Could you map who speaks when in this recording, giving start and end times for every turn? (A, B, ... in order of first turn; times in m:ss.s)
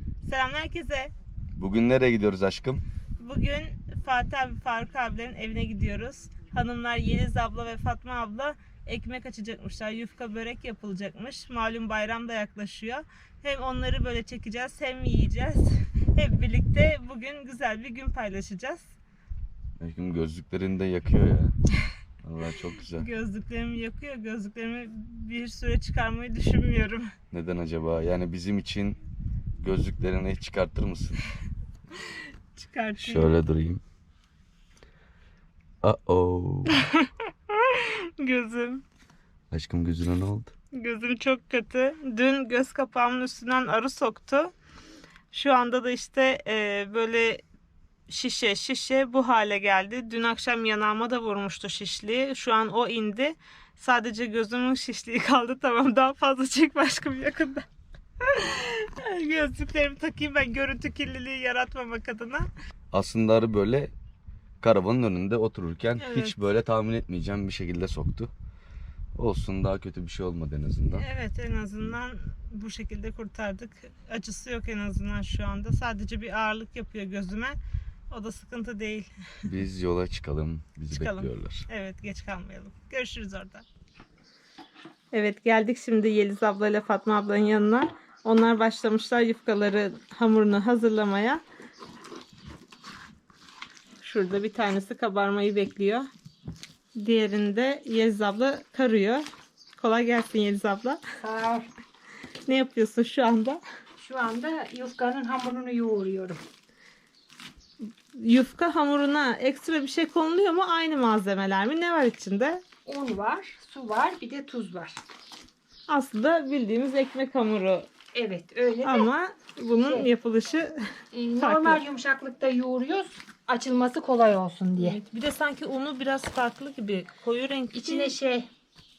0:00.2-0:01.1 A
0:01.6-0:02.8 B
0:03.2-0:18.9 A
0:19.8-0:21.5 B
0:22.2-0:23.0 B
0:23.0-0:27.1 A
0:27.3-0:29.0 B
0:29.6-0:31.2 B
0:32.5-0:33.3 A
0:33.0-0:33.8 B
0:35.8-0:36.7 B
0:37.0-0:38.8 A
0:39.5-0:40.5 B
0:40.7-0:44.5 A
0:45.3-0:47.4 A
0:48.1-0:57.6 A
0:58.2-1:02.4 A
1:02.9-1:03.9 B
1:04.6-1:08.3 B
1:06.0-1:06.4 A
1:09.2-1:11.0 B
1:11.0-1:17.6 A
1:18.1-1:19.1 A
1:19.5-1:21.6 B
1:20.9-1:23.6 A
1:25.1-1:31.4 A
1:34.0-1:36.1 A
1:36.9-1:41.0 A
1:41.2-1:41.7 C
1:42.4-1:43.6 A
1:44.0-1:46.4 C
1:48.1-1:52.6 A
1:52.8-1:55.0 C
1:55.9-1:57.9 A
1:58.1-1:59.1 C
1:58.8-2:00.8 A
1:59.8-2:00.1 C
2:01.1-2:05.0 C
2:01.4-2:01.8 A
2:04.8-2:08.1 A
2:07.7-2:08.5 C